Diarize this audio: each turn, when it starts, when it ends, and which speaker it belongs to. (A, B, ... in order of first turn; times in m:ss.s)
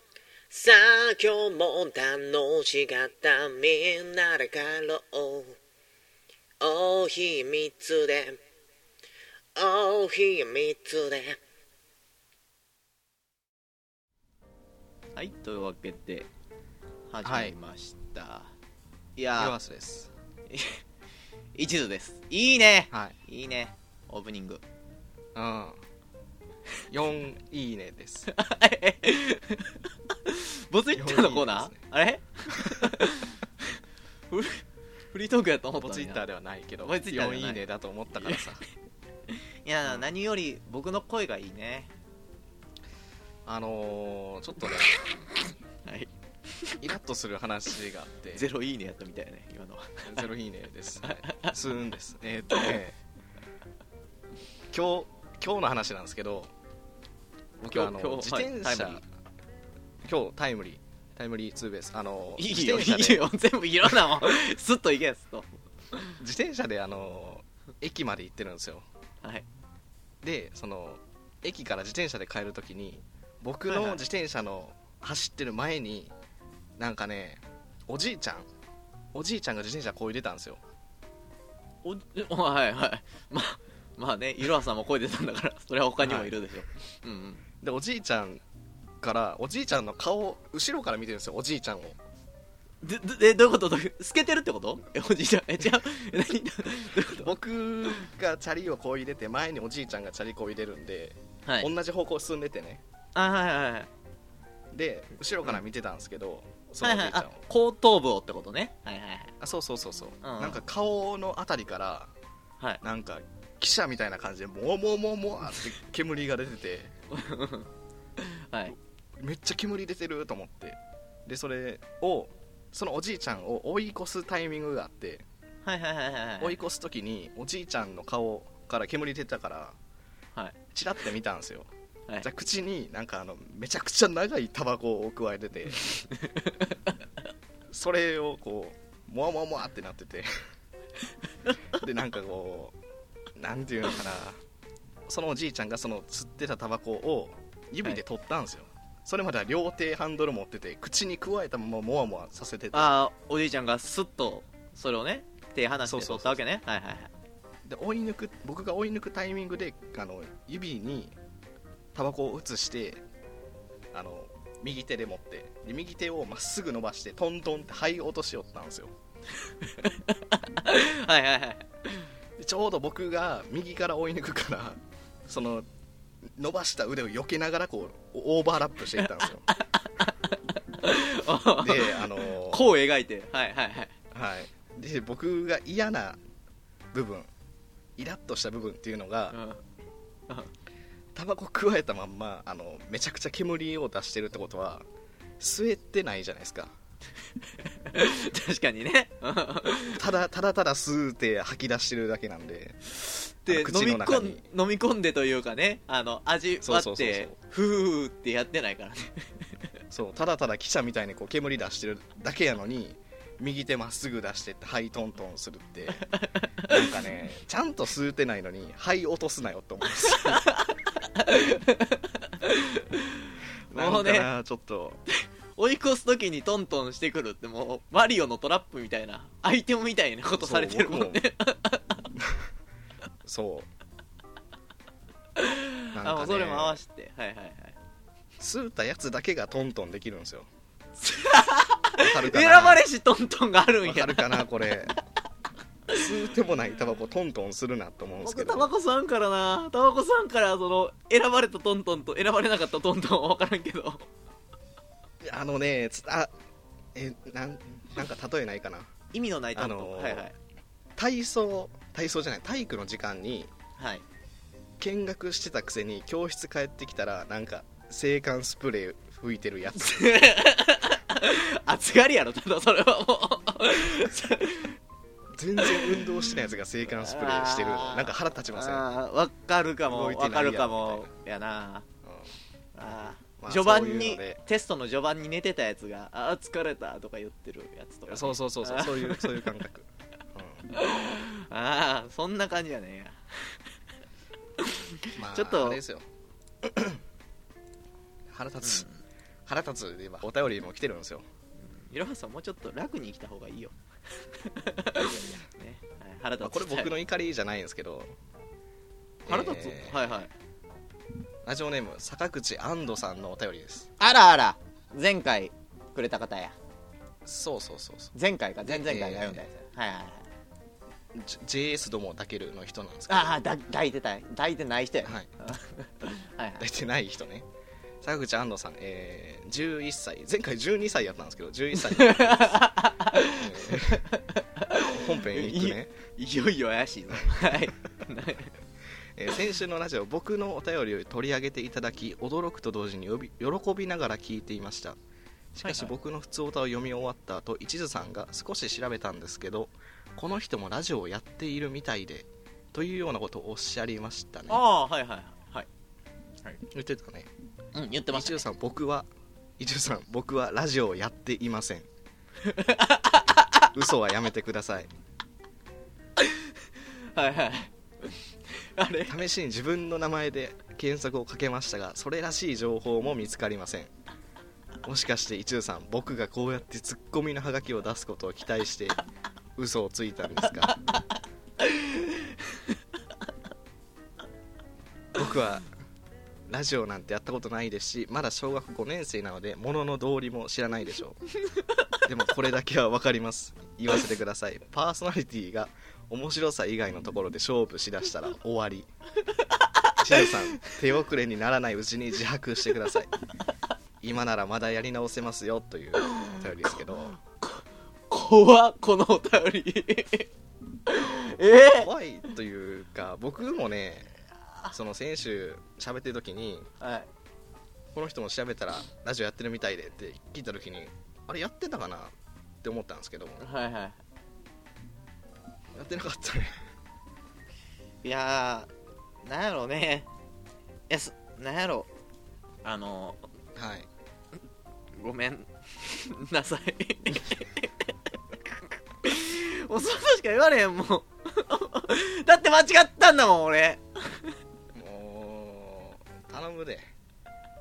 0:00.5-0:05.6 A
0:06.6-0:08.4 A
0:09.6-0:11.4 A
0:15.2-0:16.3 B
0:17.1-0:18.5 B
0:17.2-0:17.5 C
0:19.2-0:19.5 B
0:19.4-0:20.1 C
0:20.5-0:20.8 B
0:21.5-0:24.6 B
0:25.3-0:25.8 C
0:26.9-0:28.3 C
0:28.3-0:33.7 B
0:30.9-0:31.8 C
0:32.6-0:32.9 C
0:34.3-0:36.2 B
0:35.8-0:38.6 C
0:36.8-0:37.7 B
0:39.6-0:41.9 B
0:43.4-0:44.9 C
0:45.8-0:46.1 B
0:46.8-0:48.5 C
0:48.3-0:50.2 B
0:50.0-0:53.0 C
0:51.0-0:51.5 B
0:54.7-0:56.5 C
0:57.6-0:59.0 C
0:57.7-0:59.0 B
1:00.0-1:03.2 C
1:02.4-1:06.2 B
1:06.2-1:08.8 C
1:10.2-1:16.1 C
1:13.7-1:14.0 B
1:16.8-1:18.5 C
1:19.1-1:20.6 C
1:21.8-1:27.4 B
1:26.0-1:26.3 C
1:27.6-1:28.4 C
1:29.0-1:32.0 C
1:32.8-1:37.3 B
1:37.0-1:42.8 C
1:43.1-1:43.9 B
1:44.7-1:47.4 C
1:46.8-1:49.3 B
1:49.4-1:52.1 C
1:50.2-1:50.6 B
1:52.8-1:56.9 C
1:57.1-1:58.7 B
1:59.2-2:05.2 C
2:05.6-2:06.6 B
2:06.4-2:09.8 C
2:10.7-2:11.7 C
2:12.2-2:15.8 C
2:16.1-2:16.7 B
2:17.7-2:20.3 C
2:21.7-2:22.7 C
2:23.4-2:24.4 C
2:25.1-2:32.9 C
2:32.7-2:37.1 B
2:35.8-2:36.4 C
2:37.6-2:41.1 C
2:41.9-2:43.0 C
2:43.9-2:48.9 C
2:49.5-2:52.1 B
2:52.4-2:55.7 C
2:56.2-2:59.5 C
2:59.7-3:03.9 B
3:01.4-3:02.7 C
3:04.1-3:06.2 C
3:06.9-3:07.3 C
3:08.0-3:09.4 C
3:09.3-3:09.6 B
3:11.1-3:14.8 C
3:15.4-3:16.7 C
3:17.8-3:20.0 B
3:19.9-3:22.8 C
3:23.0-3:29.5 B
3:23.5-3:24.4 C
3:26.6-3:27.4 C
3:29.9-3:36.0 C
3:36.1-3:36.9 B
3:36.6-3:40.4 C
3:40.0-3:44.3 B
3:43.7-3:45.0 C
3:45.6-3:52.0 B
3:50.4-3:51.2 C
3:52.2-3:52.4 C
3:53.2-3:53.7 C
3:55.4-3:57.8 B
3:55.9-3:56.8 C
3:58.4-4:00.5 C
4:01.0-4:04.4 B
4:02.0-4:02.8 C
4:03.8-4:04.9 C
4:05.9-4:08.7 C
4:08.2-4:14.0 B
4:15.2-4:16.3 C
4:16.9-4:18.9 C
4:19.1-4:20.3 B
4:19.5-4:20.3 C
4:21.0-4:23.5 C
4:23.8-4:24.0 B
4:24.8-4:30.2 C
4:29.8-4:34.7 B
4:35.3-4:38.8 C
4:35.6-4:36.2 B
4:36.9-4:41.8 B
4:39.8-4:41.1 C
4:42.0-4:42.3 C
4:42.7-4:49.5 B
4:43.4-4:44.4 C
4:48.1-4:50.7 C
4:50.7-4:53.5 B
4:54.6-4:55.8 B
4:55.2-4:56.0 C
4:56.6-4:57.0 C
4:58.3-4:58.8 C
4:58.6-4:59.0 B
4:59.4-5:01.2 C
5:01.6-5:03.7 B
5:04.3-5:06.9 B
5:05.0-5:05.4 C
5:06.4-5:08.1 C
5:09.2-5:10.0 C
5:09.3-5:10.3 B
5:11.4-5:13.9 C
5:14.0-5:16.6 B
5:17.2-5:18.1 C
5:18.1-5:20.2 B
5:18.6-5:19.4 C
5:21.1-5:23.4 C
5:23.1-5:26.6 B
5:26.6-5:27.5 C
5:28.0-5:32.6 C
5:31.8-5:38.5 B
5:33.3-5:34.0 C
5:34.9-5:35.9 C
5:39.1-5:45.0 C
5:45.5-5:54.6 C
5:45.6-5:45.9 B
5:54.5-5:55.7 B
5:56.7-5:57.3 C
5:57.7-5:58.4 B
5:58.1-5:59.1 C
5:59.6-6:01.9 C
6:02.4-6:03.7 B
6:03.7-6:04.9 C
6:06.2-6:06.5 B
6:07.1-6:09.2 B
6:09.1-6:13.9 C
6:14.8-6:19.0 C
6:19.6-6:20.8 C
6:21.6-6:22.5 B
6:25.1-6:25.7 C
6:26.5-6:31.2 C
6:32.0-6:38.9 C
6:39.6-6:40.7 B
6:40.0-6:43.1 C
6:44.0-6:47.2 C
6:46.0-6:50.3 B
6:50.8-6:51.9 B
6:51.8-6:54.1 C
6:54.7-6:56.7 C
6:56.8-6:57.1 B
6:57.9-7:03.4 C
7:03.4-7:04.0 B
7:05.7-7:06.6 C
7:08.0-7:08.7 B
7:09.2-7:10.1 B
7:10.9-7:11.9 B
7:12.6-7:13.2 B
7:13.6-7:13.9 C
7:15.0-7:17.9 B
7:18.5-7:24.3 B
7:24.7-7:26.9 C